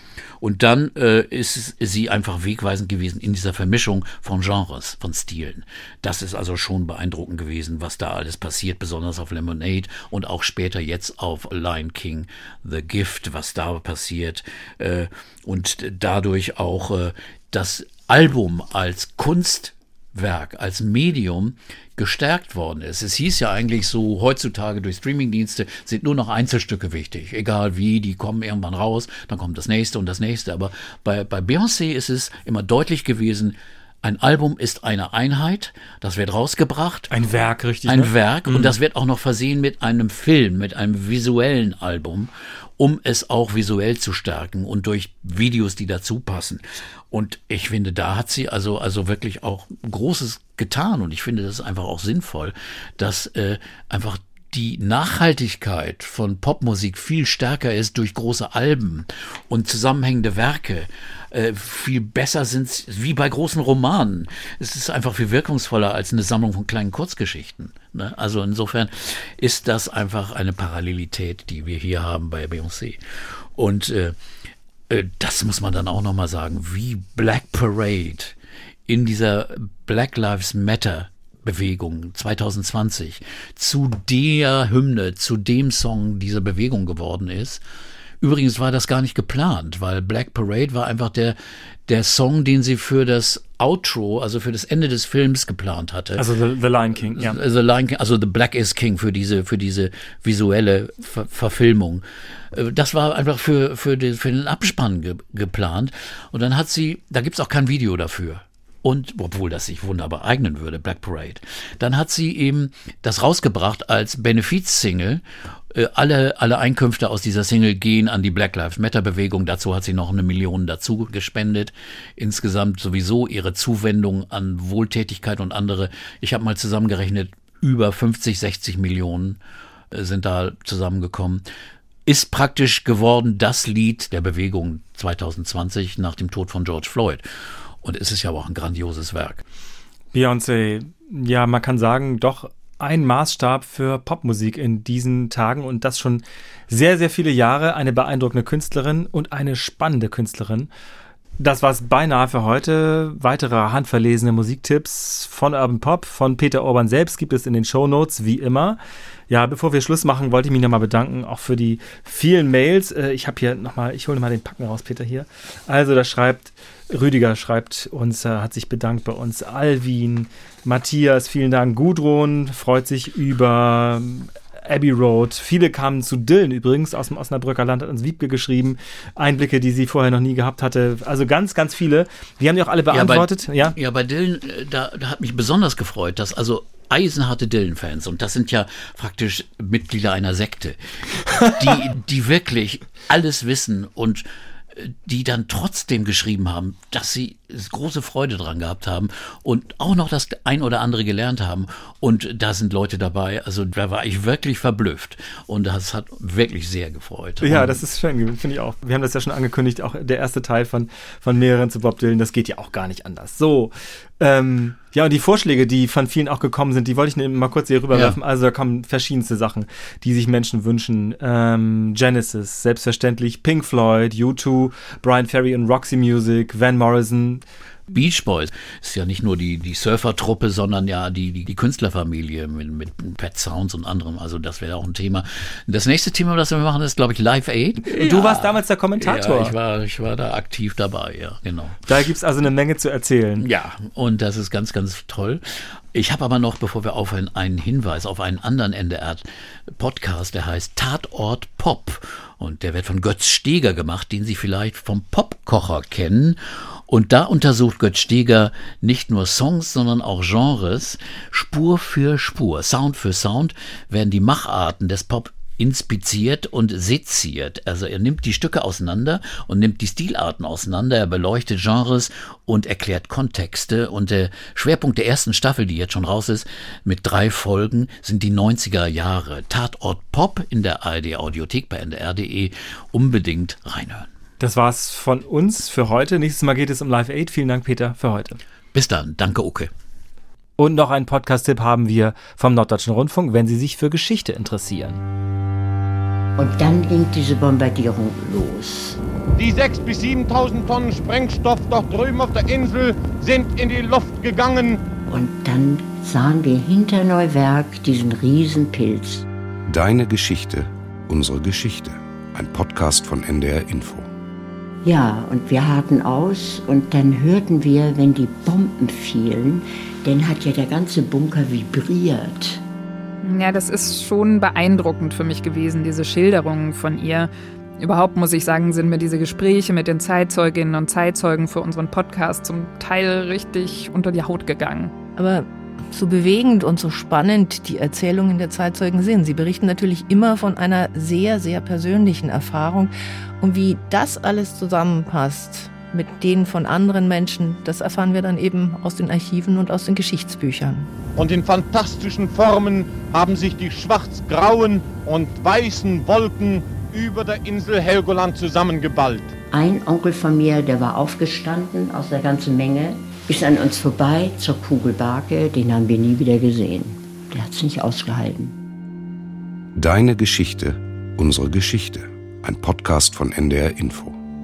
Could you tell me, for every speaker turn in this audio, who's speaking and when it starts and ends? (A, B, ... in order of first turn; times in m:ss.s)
0:00.4-0:37.1 A
0:37.1-0:38.7 B
0:37.8-1:13.0 A
1:13.5-1:14.2 A
1:14.9-1:18.3 A
1:18.9-1:27.6 A
1:28.2-1:36.2 A
1:36.2-1:37.4 B
1:37.0-2:09.4 A
2:09.9-2:11.4 A
2:12.0-2:17.2 A
2:17.8-2:19.4 A
2:20.1-2:30.7 B
2:31.4-2:38.8 B
2:39.3-3:03.7 B
3:02.9-3:27.8 A
3:27.4-3:47.4 B
3:47.9-4:01.8 A
3:57.8-3:59.5 B
4:01.9-4:03.4 B
4:03.4-4:09.2 A
4:09.8-4:44.1 A
4:44.4-4:48.4 B
4:48.7-4:49.7 A
4:50.6-4:55.0 B
4:56.4-4:59.0 C
4:59.4-5:04.8 D
5:05.1-5:09.2 C
5:09.7-5:14.1 E
5:14.8-5:22.6 C
5:23.2-5:34.9 F
5:35.2-5:50.9 G
5:51.2-5:59.3 D
5:59.5-6:08.6 C
6:09.8-6:14.2 E